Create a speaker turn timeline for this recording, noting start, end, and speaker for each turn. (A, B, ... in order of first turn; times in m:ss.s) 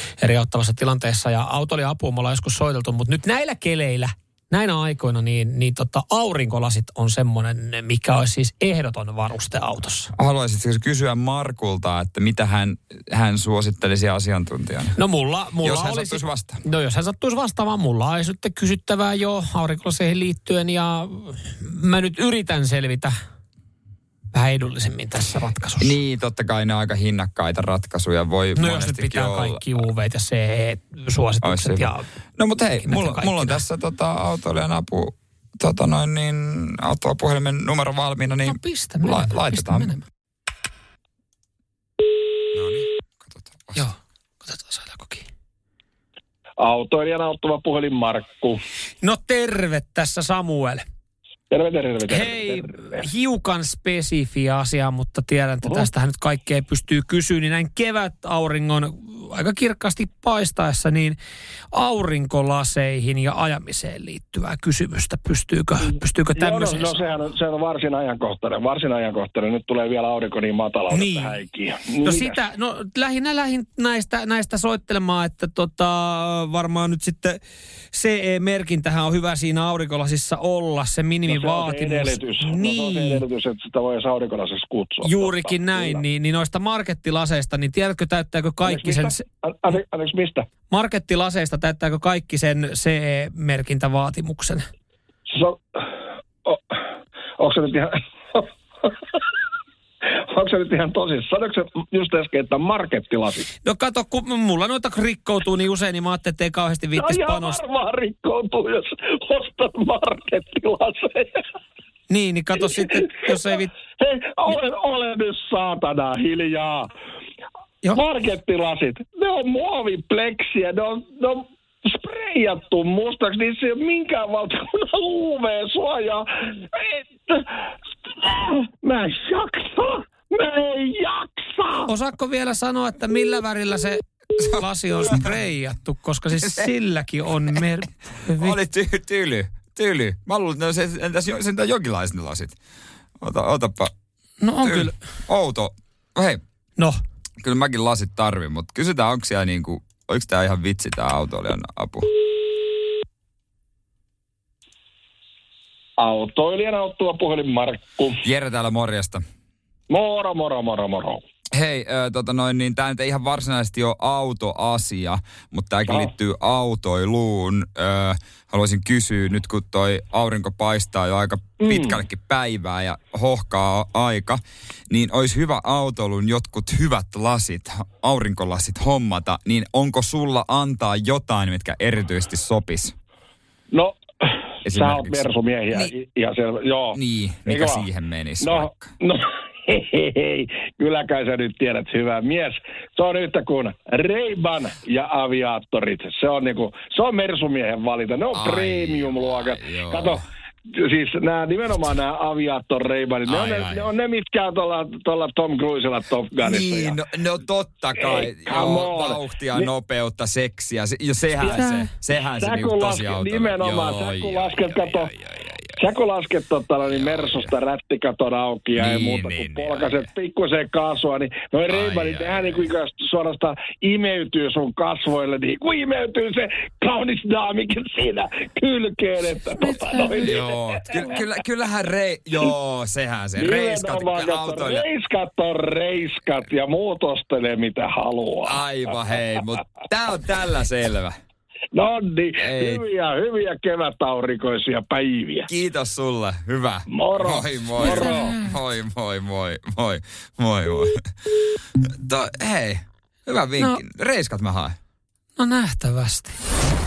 0:00.2-0:10.1 A
0:10.2-0:15.0 B
0:14.9-0:23.1 A
0:15.6-0:16.6 B
0:24.3-0:26.0 A
0:25.8-0:29.8 B
0:28.5-0:32.1 A
0:31.4-0:39.9 B
0:32.8-0:33.6 A
0:38.4-0:40.0 A
0:42.5-0:43.9 B
0:43.7-0:45.3 A
0:46.6-0:48.6 C
0:49.0-0:50.8 A
0:51.5-0:53.1 C
0:52.1-1:01.2 A
1:01.7-1:07.0 A
1:05.8-1:12.4 C
1:10.9-1:11.4 A
1:12.0-1:17.4 A
1:17.9-1:23.2 A
1:21.3-1:26.0 C
1:25.0-1:29.2 A
1:28.6-1:30.4 C
1:30.7-1:34.7 A
1:35.3-1:35.8 C
1:36.4-1:36.8 C
1:37.4-1:38.9 C
1:40.3-1:43.5 C
1:43.6-1:47.6 A
1:46.9-1:51.4 C
1:52.1-1:53.7 A
1:52.6-1:56.9 C
1:57.9-2:07.5 C
2:08.0-2:11.9 C
2:11.8-2:18.6 A
2:14.4-2:15.3 B
2:16.4-2:16.7 B
2:18.4-2:22.6 B
2:23.2-2:23.9 B
2:24.4-2:25.0 A
2:24.6-2:26.4 B
2:27.4-2:32.1 B
2:36.0-2:38.2 C
2:38.2-2:39.2 B
2:39.9-2:41.2 C
2:41.5-3:02.9 B
2:51.6-2:52.0 C
3:03.7-3:07.8 C
3:04.6-3:05.9 B
3:06.9-3:08.9 B
3:08.4-3:27.0 C
3:18.3-3:20.2 B
3:23.2-3:23.9 B
3:26.4-3:35.8 B
3:28.0-3:29.7 C
3:31.4-3:35.1 C
3:31.5-3:31.9 A
3:35.8-3:50.4 C
3:36.8-3:37.5 B
3:38.7-3:40.1 B
3:41.7-3:42.7 B
3:49.6-3:50.5 A
3:50.2-3:54.8 B
3:53.4-3:58.6 C
3:58.4-4:01.1 B
4:01.7-4:05.5 C
4:02.4-4:02.8 B
4:05.5-4:10.9 B
4:06.9-4:08.3 C
4:07.7-4:08.6 A
4:12.0-4:14.8 B
4:15.4-4:16.4 A